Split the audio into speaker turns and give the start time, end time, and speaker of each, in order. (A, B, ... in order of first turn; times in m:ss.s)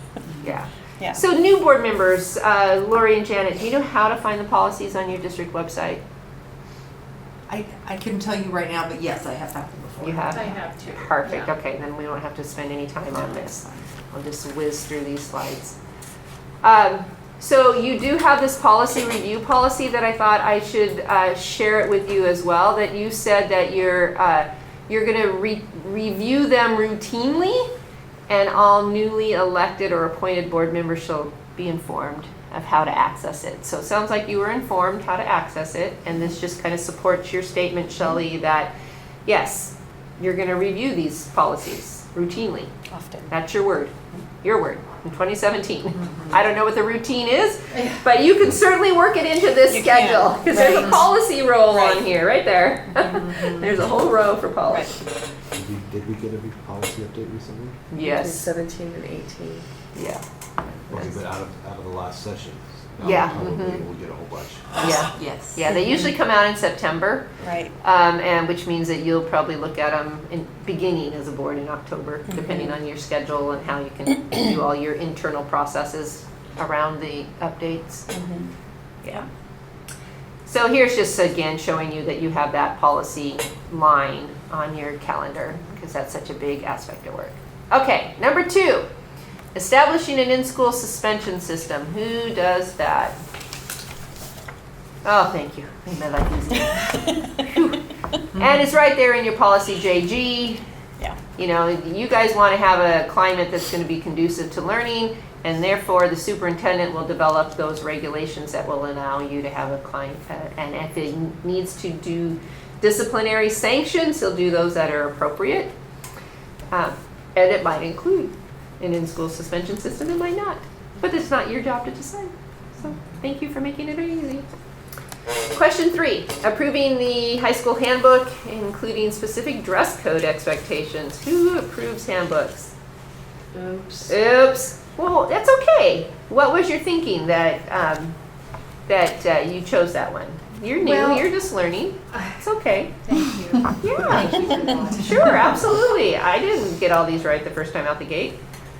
0:00.4-0:06.0 A
0:07.5-0:10.6 B
0:10.0-0:15.8 A
0:10.3-0:11.5 C
0:16.6-0:27.7 A
0:28.3-0:38.7 A
0:39.2-0:42.7 A
0:42.9-0:43.3 D
0:43.3-0:55.0 A
0:49.7-0:51.1 D
0:51.7-0:52.0 D
0:53.0-0:53.7 D
0:54.7-0:55.0 D
0:55.5-0:57.8 E
0:57.9-0:58.5 A
0:59.9-1:00.2 A
1:00.9-1:01.2 A
1:00.9-1:04.8 E
1:03.0-1:03.8 A
1:04.8-1:07.3 A
1:05.0-1:05.6 B
1:07.4-1:07.7 D
1:07.8-1:18.1 A
1:12.3-1:12.8 D
1:18.1-1:18.5 D
1:20.4-1:28.8 A
1:29.5-1:33.2 A
1:35.0-1:40.6 A
1:41.4-1:55.7 A
1:56.7-2:04.4 A
2:05.5-2:12.7 A
2:13.5-2:14.1 B
2:14.0-2:18.1 A
2:18.9-2:23.0 A
2:23.0-2:25.6 C
2:23.7-2:28.4 A